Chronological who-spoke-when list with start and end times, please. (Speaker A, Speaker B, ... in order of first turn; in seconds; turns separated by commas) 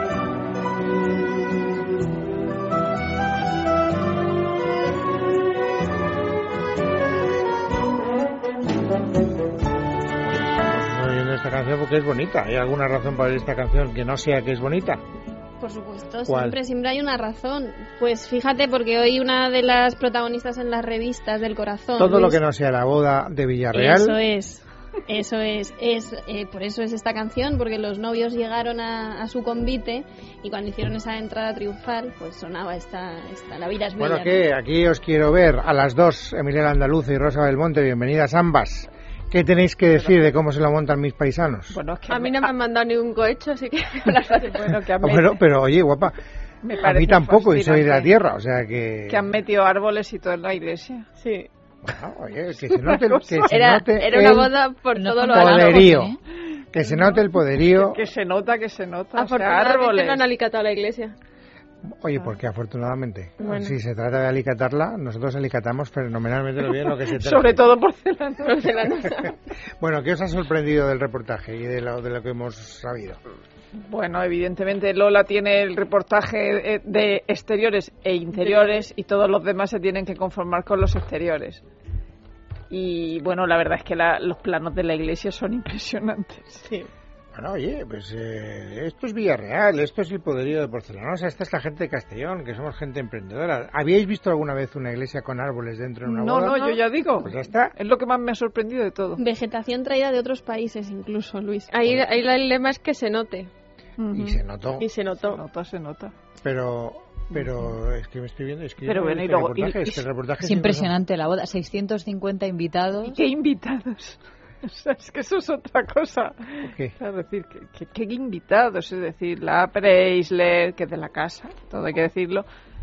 Speaker A: 10.2-15.0, Speaker B: 15.6-22.4, Speaker A: 16.3-16.6, Speaker A: 22.0-24.2, Speaker B: 23.7-34.4, Speaker A: 34.0-41.8, Speaker C: 41.7-42.5, Speaker D: 42.1-44.8, Speaker C: 44.2-45.4, Speaker A: 45.0-46.2, Speaker C: 46.6-48.1, Speaker A: 46.8-49.3, Speaker C: 49.1-51.1, Speaker D: 51.2-51.5, Speaker A: 51.8-54.5, Speaker C: 52.7-53.5, Speaker D: 53.5-56.0, Speaker B: 53.5-54.4, Speaker E: 54.9-56.2, Speaker A: 55.2-56.1, Speaker A: 56.7-58.0, Speaker C: 56.8-60.2, Speaker D: 59.1-61.1, Speaker A: 61.9-67.6, Speaker D: 63.4-63.8, Speaker C: 66.8-69.0, Speaker D: 68.4-69.3, Speaker A: 69.8-73.2, Speaker C: 73.7-81.6, Speaker C: 82.7-86.6, Speaker A: 87.3-96.6, Speaker C: 96.0-99.2, Speaker D: 96.5-96.8, Speaker A: 97.2-97.7, Speaker B: 99.2-101.7, Speaker D: 101.7-103.5, Speaker C: 104.0-104.4, Speaker A: 104.1-104.9, Speaker D: 104.8-105.4, Speaker C: 105.2-106.1, Speaker A: 106.4-110.9, Speaker C: 108.8-110.0, Speaker E: 110.4-113.2, Speaker C: 113.0-122.5, Speaker A: 116.6-116.9